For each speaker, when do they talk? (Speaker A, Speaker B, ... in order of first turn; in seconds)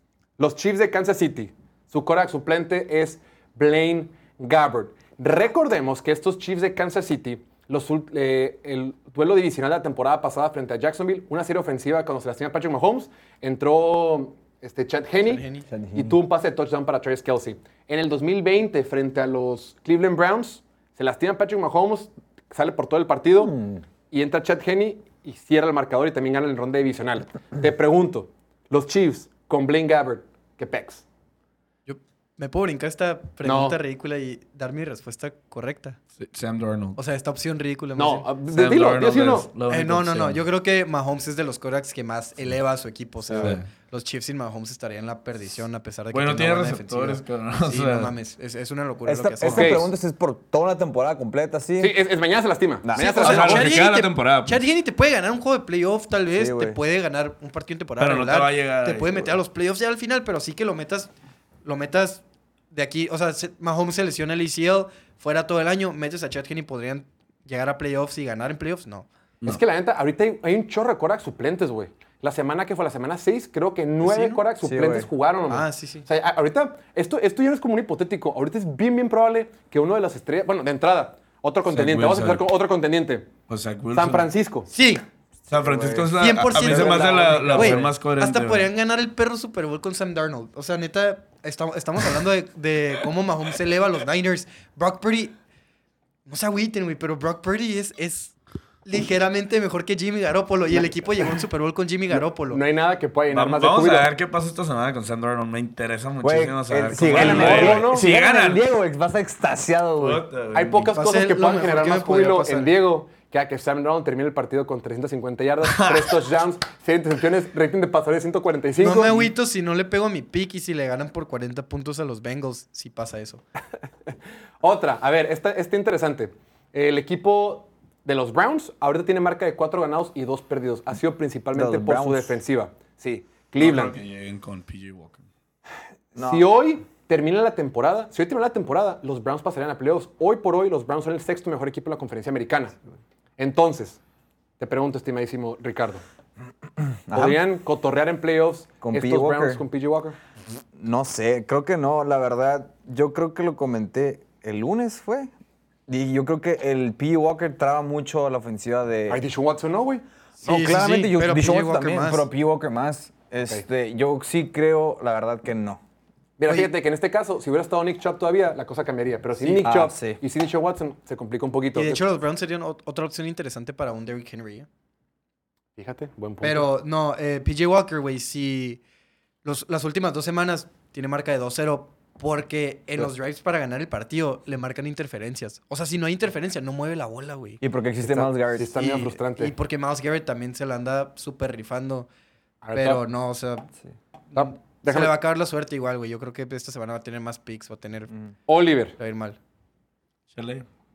Speaker A: 0.4-23.6, 24.1-31.1, 33.4-33.8, 38.0-39.5, 49.4-49.9, 51.8-53.8, 69.5-83.3, 83.9-84.7, 102.5-104.1, 107.1-108.1, 110.5-119.3, 124.6-134.0, 136.2-142.8, 143.4-144.0, 144.6-146.0, 147.1-150.2, 159.1-160.0, 166.4-172.0, 175.8-176.7, 188.0-189.5, 192.6-193.0, 194.3-195.1, 198.5-199.0
Speaker B: 15.2-15.7, 31.9-36.0, 37.0-38.3, 39.7-49.9, 53.0-61.1, 61.6-69.1, 74.0-74.4, 75.5-76.1, 84.7-85.0, 86.2-95.4, 96.3-102.6, 111.0-112.7, 118.8-123.4, 160.4-162.3, 171.8-174.7, 176.4-178.8, 179.4-187.6, 188.8-192.1, 192.7-193.7, 194.3-198.1, 199.0-199.4
Speaker C: 15.7-16.2, 23.4-23.8, 49.0-52.0, 52.8-53.4, 56.3-56.8, 74.6-75.1, 85.5-87.8, 106.2-110.2, 131.5-132.4, 136.2-136.4, 147.1-147.4, 148.8-149.6, 150.8-155.3, 155.9-159.2, 160.4-165.8, 169.4-170.2, 187.6-188.9
Speaker D: 36.2-37.0, 38.5-40.4, 43.3-43.7, 46.1-48.1, 53.2-54.6, 58.0-59.4, 81.7-82.4, 83.5-84.3, 85.5-88.7, 103.3-108.7, 110.0-110.9, 133.6-135.2, 200.3-200.7